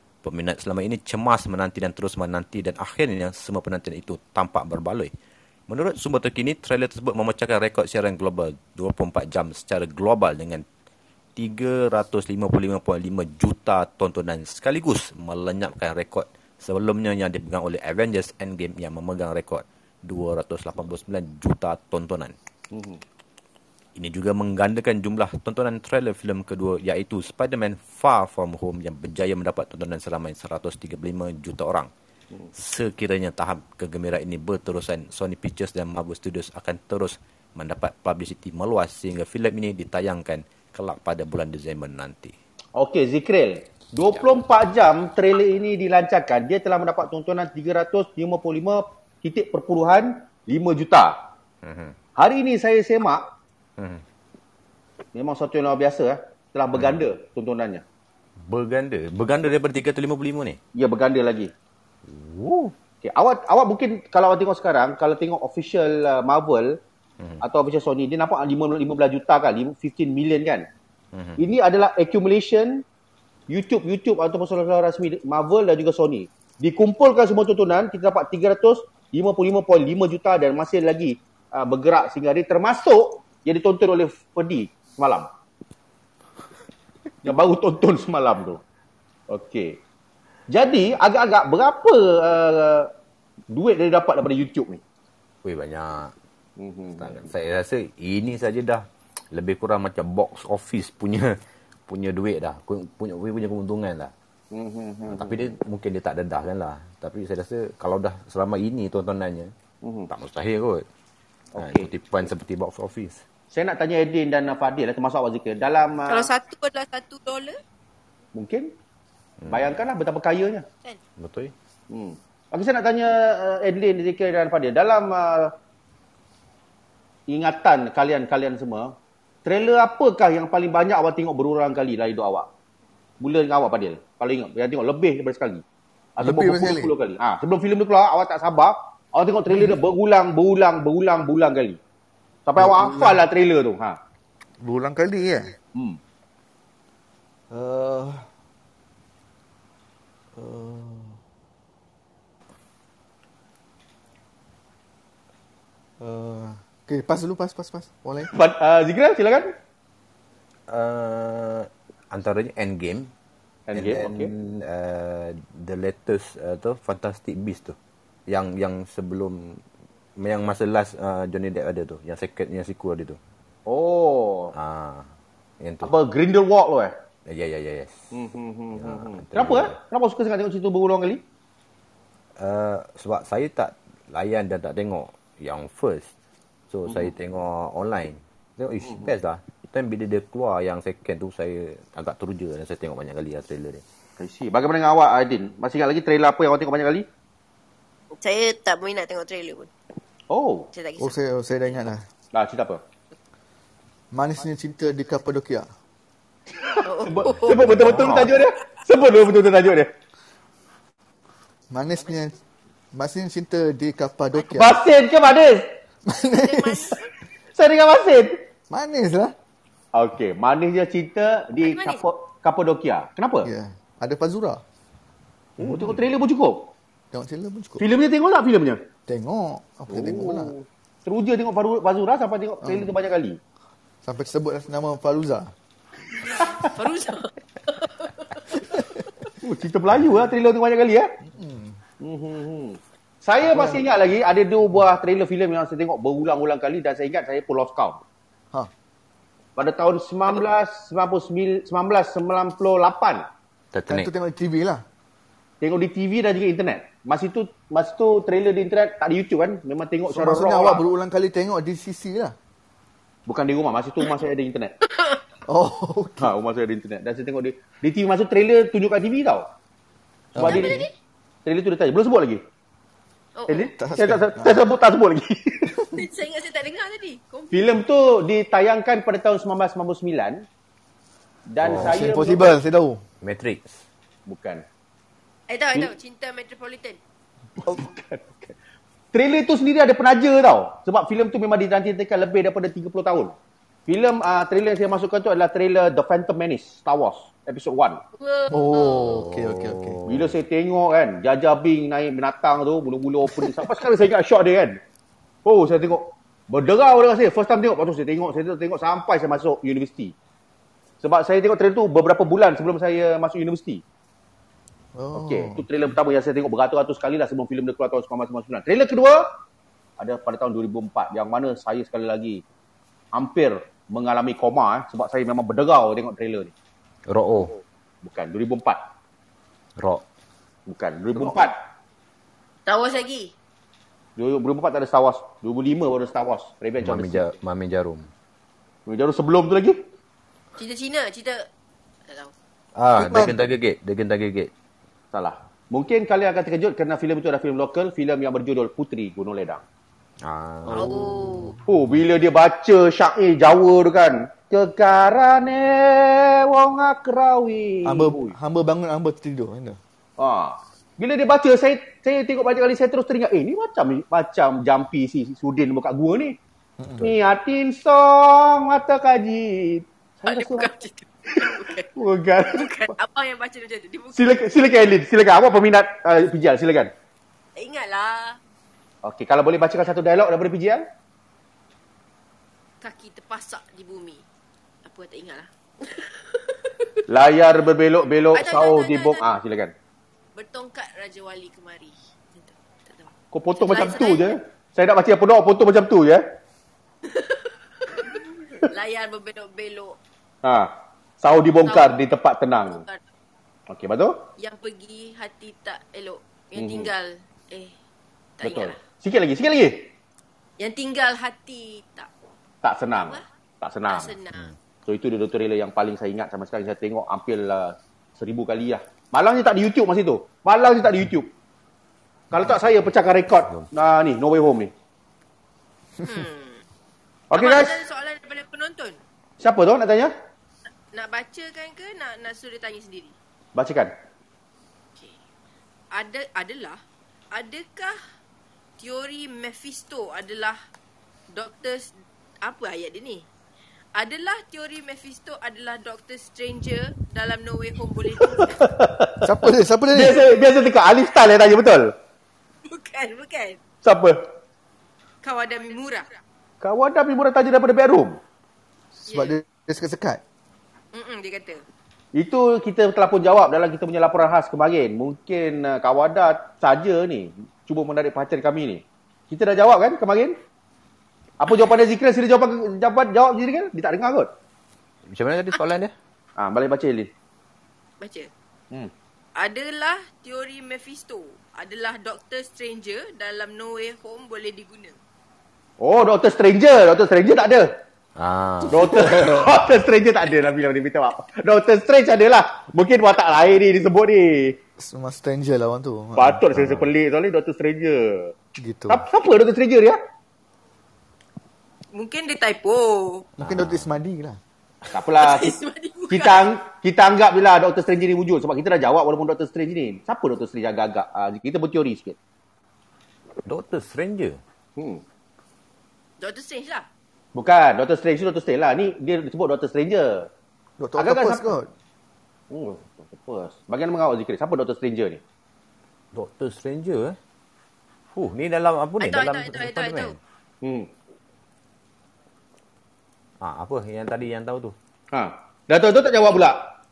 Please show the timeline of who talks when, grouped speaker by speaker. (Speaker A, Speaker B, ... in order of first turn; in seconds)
Speaker A: 0.2-5.1, 5.7-10.7, 11.4-22.4, 24.0-31.9, 32.5-42.3, 51.6-52.0, 53.8-54.0, 58.5-60.6, 62.1-62.7, 71.1-71.4, 95.4-96.1, 97.0-104.1, 105.1-109.5, 110.1-110.9, 111.6-113.2, 119.4-119.8, 121.2-121.5, 160.7-163.1, 163.7-167.8, 168.3-169.6, 170.2-173.2, 174.5-175.1, 175.6-175.9, 177.3-178.1, 178.8-179.8, 182.4-186.1, 186.7-193.8, 207.7-208.2, 253.7-254.1, 281.6-282.1, 283.2-283.8, 299.1-300.3, 327.1-327.6, 329.8-330.0, 336.8-338.1, 342.8-344.5, 350.2-351.1, 475.1-475.9, 488.2-489.5, 503.4-503.9, 513.5-514.4, 526.1-527.2, 528.1-530.2, 533.4-534.8
Speaker B: 22.7-23.0, 42.8-51.2, 52.2-53.3, 55.1-57.8, 60.8-61.5, 63.0-66.8, 67.4-70.7, 71.4-72.8, 73.5-85.3, 87.2-88.6, 89.3-89.8, 90.5-92.9, 93.5-94.8, 96.6-97.3, 104.5-105.5, 109.8-110.1, 111.5-111.9, 113.5-116.3, 118.3-118.7, 119.5-120.7, 121.9-125.5, 127.3-132.5, 133.2-135.6, 136.2-141.8, 142.5-144.0, 145.7-146.0, 158.2-159.5, 163.7-164.3, 173.7-174.5, 175.8-176.9, 178.1-181.2, 186.9-187.1, 188.8-189.1, 194.2-197.1, 200.3-200.7, 202.3-202.8, 206.6-209.9, 214.5-215.8, 217.6-218.4, 219.9-223.5, 225.6-226.7, 227.8-228.8, 229.9-233.4, 239.4-241.1, 242.0-248.0, 249.6-253.3, 255.6-260.8, 263.3-264.8, 266.2-269.5, 270.4-270.8, 271.4-272.4, 273.5-275.8, 277.5-280.5, 281.5-282.6, 284.3-284.6, 287.6-288.5, 289.1-293.4, 293.9-298.0, 300.1-304.8, 305.4-310.1, 311.0-313.8, 315.1-319.3, 320.0-322.4, 323.1-326.5, 328.0-328.8, 330.7-331.6, 334.2-337.3, 338.9-339.8, 345.1-349.6, 351.7-358.4, 360.2-366.4, 367.0-370.7, 371.3-372.8, 374.1-376.9, 379.0-380.9, 387.1-389.7, 393.3-396.2, 400.4-402.8, 403.7-404.3, 406.6-406.9, 408.4-409.9, 412.6-414.2, 414.9-421.3, 422.3-424.7, 427.3-427.8, 429.4-430.1, 433.6-433.9, 448.2-449.3, 449.9-451.9, 453.8-454.2, 456.6-458.2, 462.2-470.4, 471.4-474.3, 476.4-477.1, 485.8-487.8, 488.7-494.6, 496.2-498.3, 498.9-500.0, 504.9-505.6, 506.1-512.2, 514.8-515.0, 517.4-520.3, 521.0-521.5, 522.5-525.2, 530.6-530.9, 535.1-536.7
Speaker C: 116.1-117.6, 198.2-199.7, 200.7-201.2, 206.7-208.1, 216.3-217.1, 221.6-222.0, 236.2-238.6, 270.4-270.9, 273.4-273.7, 275.9-277.8, 285.5-287.0, 298.2-299.1, 332.7-333.3, 340.6-341.5, 342.1-342.3, 350.7-351.6, 370.3-371.9, 372.5-374.4, 377.6-378.4, 382.8-384.2, 384.9-387.0, 388.3-389.3, 390.4-394.4, 397.0-400.0, 401.7-401.9, 402.7-403.0, 404.4-407.7, 408.4-408.8, 410.6-412.1, 413.9-414.5, 426.0-426.6, 427.3-429.0, 430.9-433.1, 435.9-436.8, 437.3-438.0, 438.8-440.6, 441.3-443.3, 443.9-448.7, 452.7-453.6, 455.2-456.1, 459.1-459.4, 460.9-461.6, 478.0-478.3, 479.4-485.0, 501.9-503.3, 505.2-506.5, 516.2-516.9, 529.0-530.2
Speaker D: 136.2-136.9, 142.6-143.2, 144.6-145.6, 147.5-148.3, 150.4-151.2, 156.0-158.3, 201.0-202.0, 204.1-205.7, 207.8-208.2, 211.7-212.4, 212.9-214.8, 216.1-217.0, 218.7-219.3, 223.4-224.6, 225.6-226.0, 227.1-227.8, 229.1-230.5, 232.6-232.9, 234.0-235.5, 241.3-241.8, 243.4-243.8, 253.9-254.8, 260.1-262.4, 265.5-266.3, 270.4-270.9, 273.7-274.6, 281.8-283.0, 298.5-300.0, 314.9-315.6, 343.0-343.5, 350.7-351.6, 357.9-359.8, 366.8-367.1, 449.2-450.2, 459.0-460.2, 494.8-496.8, 498.6-499.1, 503.4-504.4, 520.8-521.7